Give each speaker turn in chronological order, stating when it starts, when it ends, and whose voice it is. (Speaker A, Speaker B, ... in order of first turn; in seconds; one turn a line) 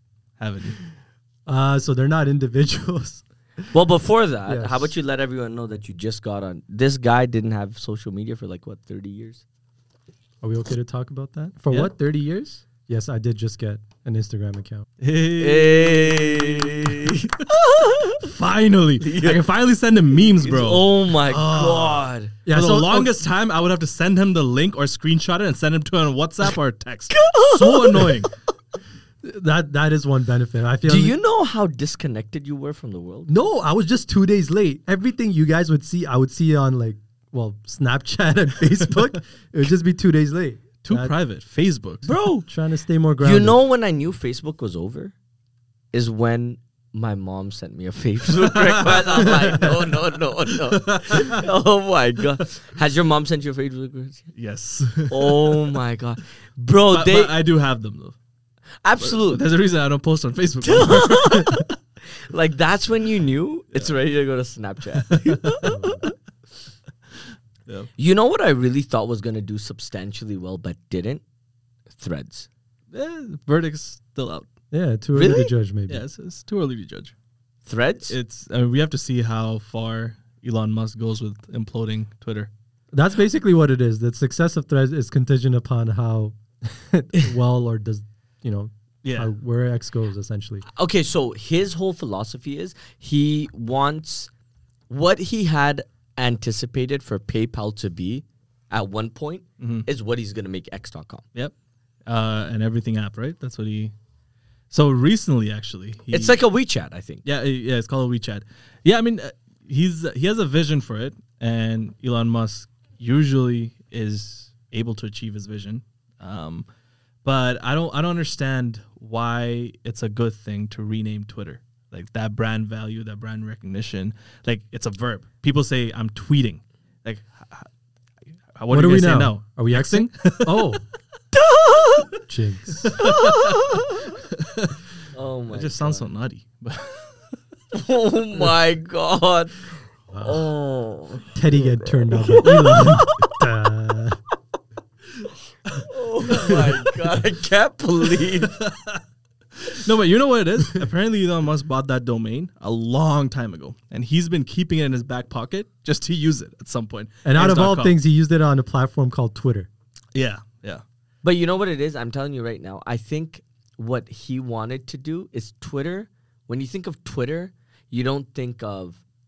Speaker A: 0.4-0.8
Speaker B: 1.4-3.2
Speaker C: 3.7-9.4
Speaker B: 4.5-4.9
Speaker B: 10.4-14.8
Speaker A: 15.0-17.2
Speaker C: 15.3-18.3
Speaker A: 18.1-28.3
Speaker C: 19.0-19.4
Speaker C: 20.3-22.3
Speaker B: 22.4-23.1
Speaker C: 27.1-28.2
Speaker B: 29.2-31.2
Speaker C: 30.9-33.3
Speaker B: 33.3-41.1
Speaker A: 40.8-42.1
Speaker C: 42.0-42.5
Speaker B: 42.5-43.6
Speaker C: 43.2-45.1
Speaker C: 45.9-54.3
Speaker A: 48.4-49.9
Speaker A: 50.5-51.4
Speaker A: 54.4-55.7
Speaker C: 55.1-57.3
Speaker A: 56.9-58.1
Speaker C: 58.8-59.4
Speaker A: 59.0-61.6
Speaker C: 60.6-61.7
Speaker C: 62.3-66.1
Speaker A: 65.1-65.7
Speaker B: 65.6-66.0
Speaker C: 68.0-71.2
Speaker C: 71.9-72.5
Speaker A: 72.9-74.5
Speaker B: 74.7-76.0
Speaker C: 75.2-75.5
Speaker A: 75.9-77.1
Speaker C: 77.7-78.1
Speaker A: 78.1-82.5
Speaker B: 82.9-90.6
Speaker A: 89.0-89.3
Speaker C: 90.7-94.3
Speaker C: 94.9-101.2
Speaker A: 99.6-99.9
Speaker A: 102.1-103.9
Speaker A: 104.7-106.4
Speaker C: 106.1-107.2
Speaker A: 107.2-116.7
Speaker A: 117.2-127.7
Speaker A: 128.5-130.8
Speaker B: 128.7-130.8
Speaker C: 131.3-132.1
Speaker B: 132.3-133.0
Speaker A: 132.8-134.8
Speaker C: 133.0-134.1
Speaker C: 135.1-136.1
Speaker A: 135.5-137.1
Speaker C: 137.7-139.6
Speaker B: 140.1-140.4
Speaker C: 140.2-143.4
Speaker B: 141.3-144.2
Speaker C: 145.7-148.5
Speaker A: 146.3-146.7
Speaker A: 148.2-149.0
Speaker A: 149.6-157.9
Speaker B: 157.2-159.7
Speaker A: 160.1-160.8
Speaker C: 161.2-169.0